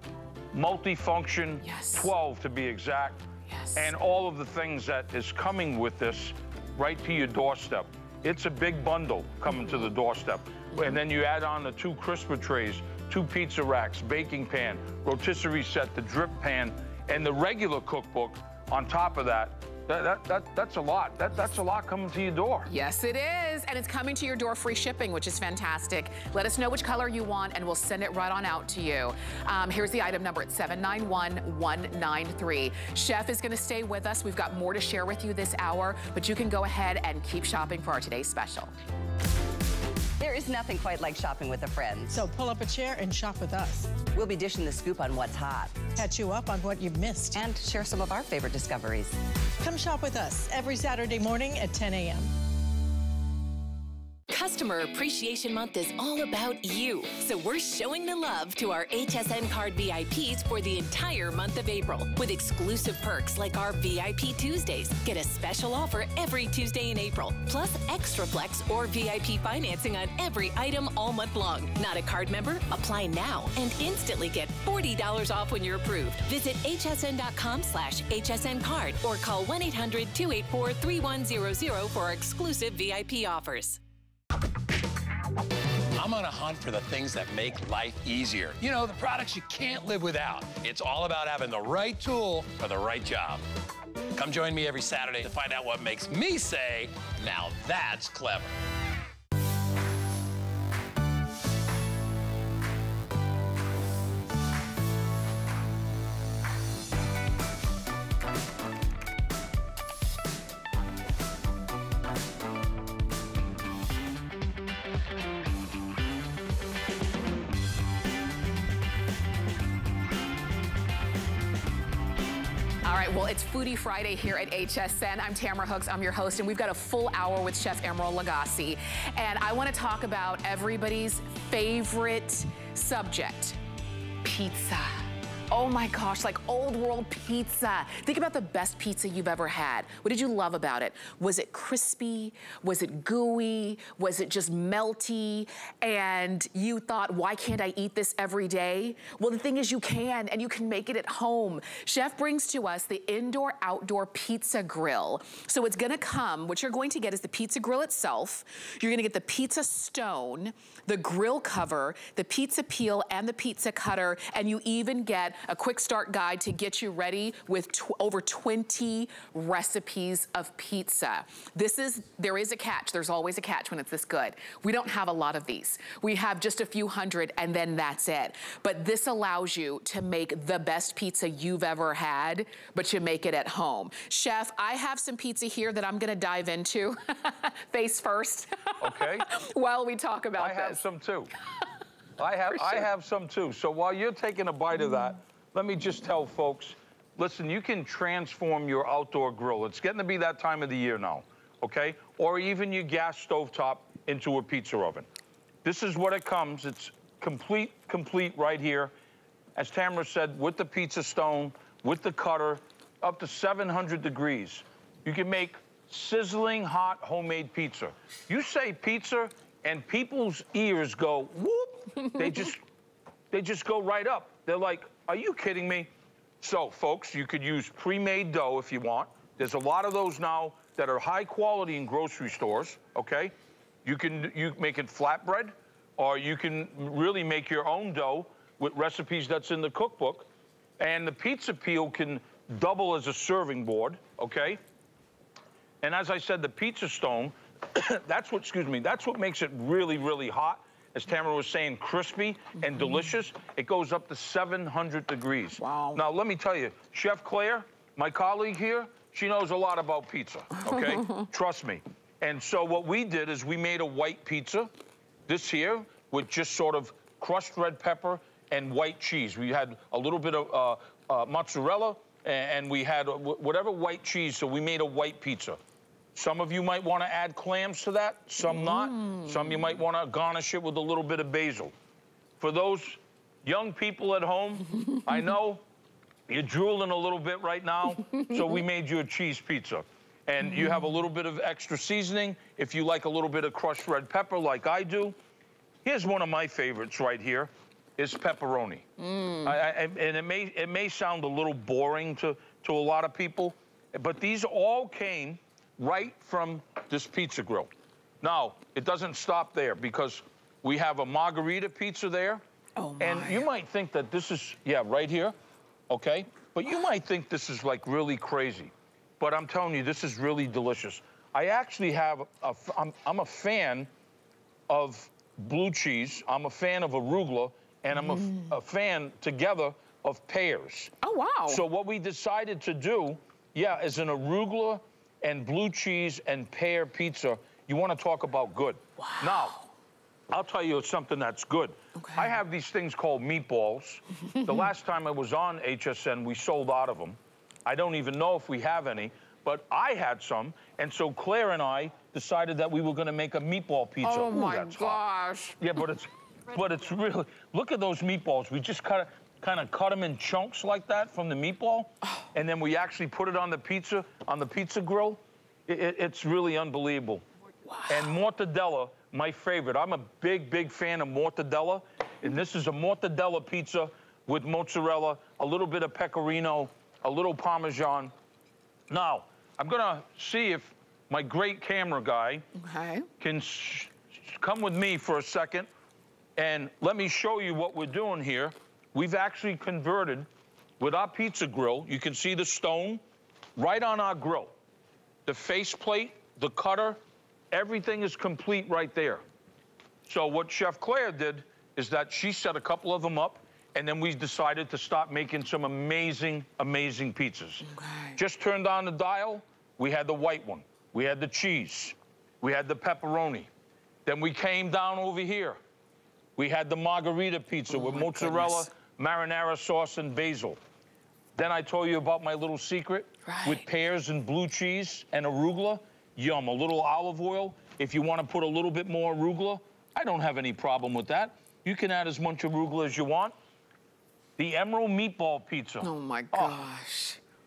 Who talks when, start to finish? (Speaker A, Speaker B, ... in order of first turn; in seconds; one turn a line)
Speaker A: 0.5-3.2
Speaker B: 1.6-2.1
Speaker B: 3.5-3.9
Speaker A: 3.7-22.7
Speaker B: 22.7-38.7
Speaker C: 40.2-42.2
Speaker D: 42.1-44.0
Speaker C: 44.1-45.9
Speaker D: 45.9-47.4
Speaker C: 47.3-49.1
Speaker D: 49.6-52.3
Speaker E: 54.3-83.8
Speaker F: 85.9-93.4
Speaker F: 94.1-98.5
Speaker B: 122.8-133.6
Speaker B: 134.2-190.8
Speaker A: 188.8-189.3
Speaker A: 190.4-191.3
Speaker A: 192.2-205.1
Speaker B: 192.5-192.9
Speaker A: 205.6-208.9
Speaker A: 209.6-222.6
Speaker A: 223.3-233.3
Speaker A: 233.8-240.3
Speaker A: 240.8-244.6
Speaker A: 245.8-264.7
Speaker B: 255.6-256.0
Speaker A: 265.3-275.6
Speaker A: 276.1-281.7
Speaker B: 278.4-279.3
Speaker A: 282.4-285.6
Speaker A: 286.3-295.2
Speaker A: 295.8-298.9
Speaker B: 299.0-299.5
Speaker A: 299.4-307.7
Speaker A: 308.2-312.4
Speaker B: 312.8-313.4
Speaker A: 313.0-315.3
Speaker A: 315.9-323.9
Speaker A: 324.7-330.9
Speaker B: 328.0-328.5
Speaker B: 331.0-331.6
Speaker A: 331.5-339.6
Speaker B: 339.0-339.7
Speaker A: 340.3-355.0
Speaker B: 341.9-342.3
Speaker B: 354.0-355.6
Speaker A: 355.6-367.2
Speaker B: 367.6-368.1
Speaker A: 367.9-378.1
Speaker A: 378.9-382.4
Speaker B: 382.5-383.1
Speaker A: 383.2-385.7
Speaker A: 386.4-390.3
Speaker A: 390.8-393.0
Speaker A: 393.6-394.5
Speaker A: 395.2-397.0
Speaker A: 397.5-399.2
Speaker A: 400.1-413.5
Speaker B: 407.6-408.2
Speaker A: 414.1-415.6
Speaker A: 416.4-420.6
Speaker B: 417.7-418.7
Speaker A: 421.3-433.3
Speaker B: 423.2-423.6
Speaker A: 434.4-436.6
Speaker B: 435.8-437.2